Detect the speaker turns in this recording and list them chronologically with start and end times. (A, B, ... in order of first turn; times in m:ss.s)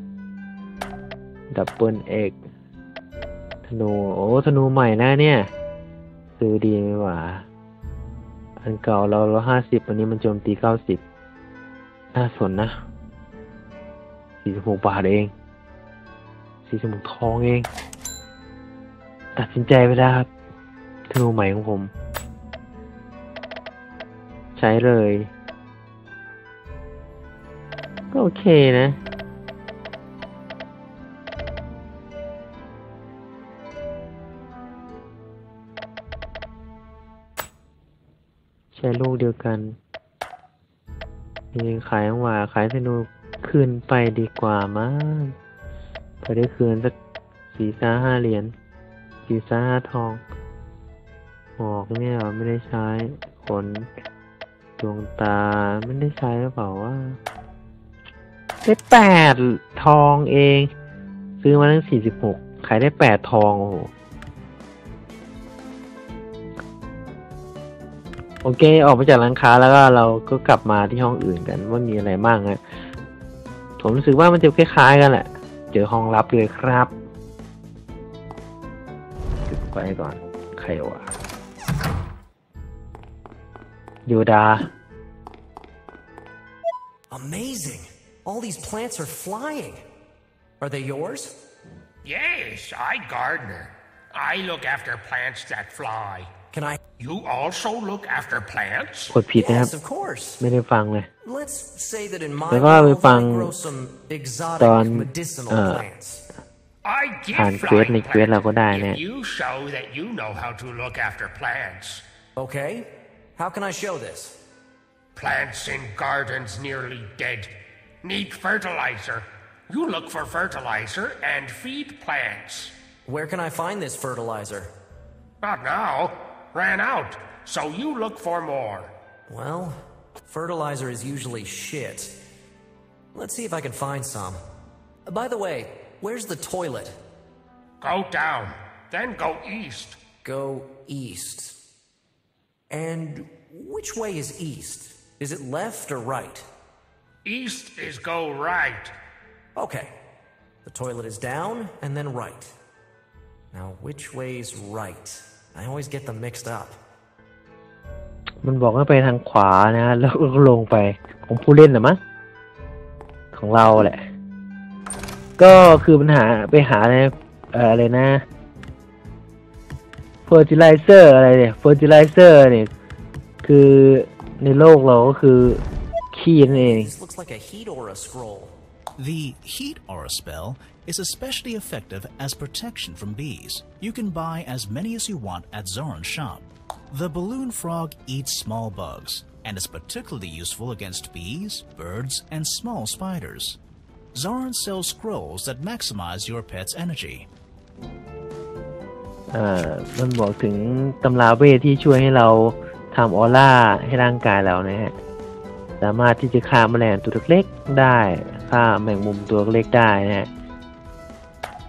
0:01.5-0:02.4 A
0:03.6-0:05.5 A
0:06.4-0:07.4 A
0:08.6-0:11.0 A
0:12.1-0:12.7 A
0:14.4-0:15.3 A
0:16.7-0:17.7 A
0:19.4-0:20.3 A
0:21.1-0:21.9 A
0:24.6-0:25.3 A
0:28.1-0:29.0 A
0:38.7-0:39.8 A
0:41.5-0:45.3 A
0:46.2-0:46.9 A
0:47.5-0:48.5 A
0:49.3-0:50.2 A
0:51.6-0:53.9 A
0:54.8-0:57.2 A
0:58.6-1:00.7 A
1:01.4-1:03.9 A
1:08.4-1:12.6 A
1:13.8-1:16.9 A
1:19.5-1:21.1 A
1:24.0-1:24.7 A
1:27.1-1:29.8 B
1:30.6-1:31.3 B
1:32.0-1:36.3 C
1:36.5-1:36.8 B
1:37.0-1:39.2 C
1:39.1-1:39.7 A
1:39.4-1:40.4 B
1:40.4-1:41.1 A
1:41.2-1:46.2 B
1:42.5-1:43.5 A
1:44.6-1:45.8 A
1:46.8-1:52.0 C
1:47.3-1:49.0 A
1:52.4-1:54.4 B
1:55.1-2:02.7 C
2:03.0-2:04.7 B
2:05.4-2:08.9 C
2:09.3-2:09.8 B
2:10.3-2:12.2 B
2:13.1-2:14.4 B
2:15.0-2:17.0 B
2:17.8-2:20.0 C
2:20.2-2:21.6 B
2:22.7-2:26.4 B
2:27.2-2:28.9 C
2:29.6-2:29.9 B
2:30.6-2:32.5 B
2:33.5-2:36.8 B
2:38.4-2:42.0 A
2:43.3-2:44.0 A
2:45.4-2:48.2 A
2:50.3-2:52.7 A
2:53.4-2:55.6 A
2:56.1-2:56.9 A
2:56.5-2:58.5 B
2:59.0-3:13.6 D
3:14.1-3:17.3 D
3:19.3-3:24.9 A
3:25.8-3:30.3 A